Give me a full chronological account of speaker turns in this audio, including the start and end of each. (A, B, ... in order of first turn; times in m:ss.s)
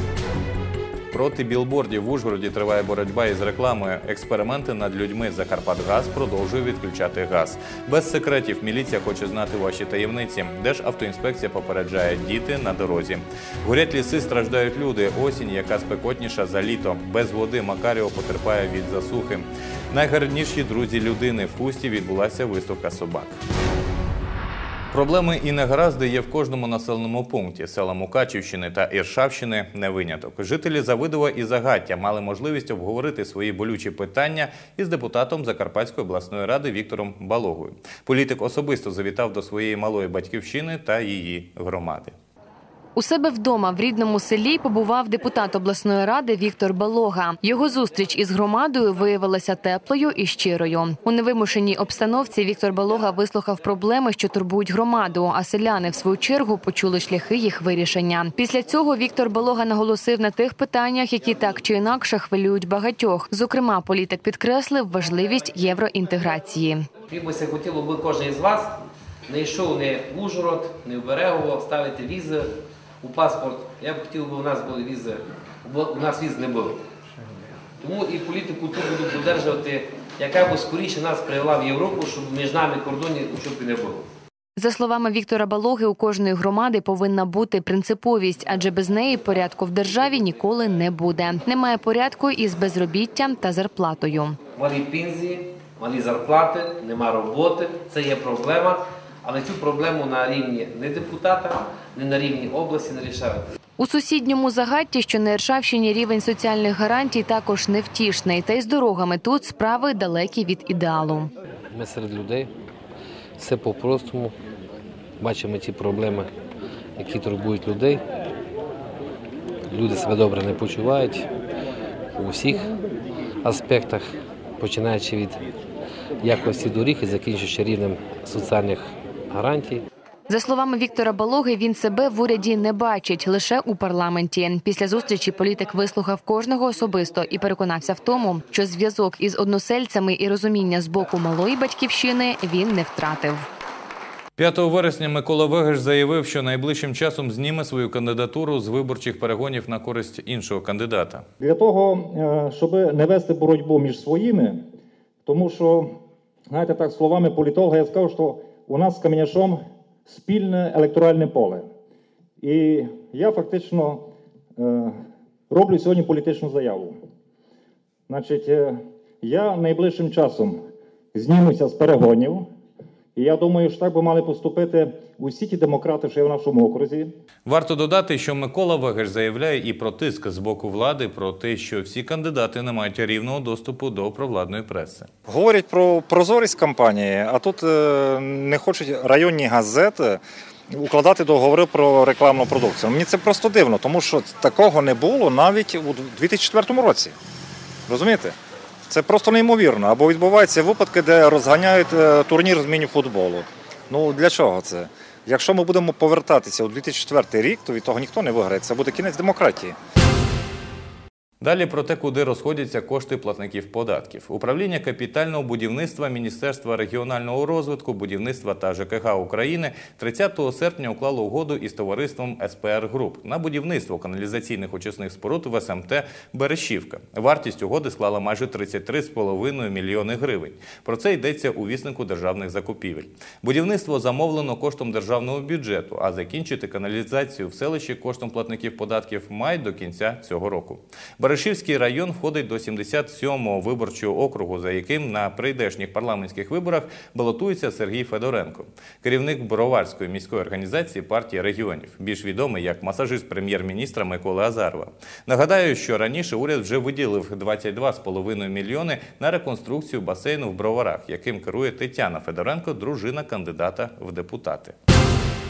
0:01.1-0:23.3 A
0:24.9-0:42.1 A
0:43.0-1:06.8 B
1:07.1-1:16.8 C
1:17.8-1:24.0 C
1:24.6-1:34.4 B
1:34.6-1:43.5 C
1:43.8-1:51.3 B
1:51.7-1:52.5 D
1:53.4-1:54.3 D
1:55.2-1:56.3 D
1:57.0-1:58.0 D
1:59.7-2:01.3 D
2:02.2-2:02.7 D
2:03.4-2:05.4 D
2:06.2-2:09.8 D
2:10.3-2:23.4 B
2:24.4-2:31.2 A
2:31.4-2:34.6 E
2:35.3-2:35.9 E
2:36.5-2:41.7 E
2:42.4-2:44.0 E
2:44.6-2:45.0 E
2:45.5-2:47.0 E
2:48.1-2:52.5 E
2:53.2-2:57.1 E
2:57.4-3:05.1 A
3:05.3-3:17.1 F
3:17.9-3:18.4 F
3:18.9-3:29.8 F
3:31.4-4:24.8 A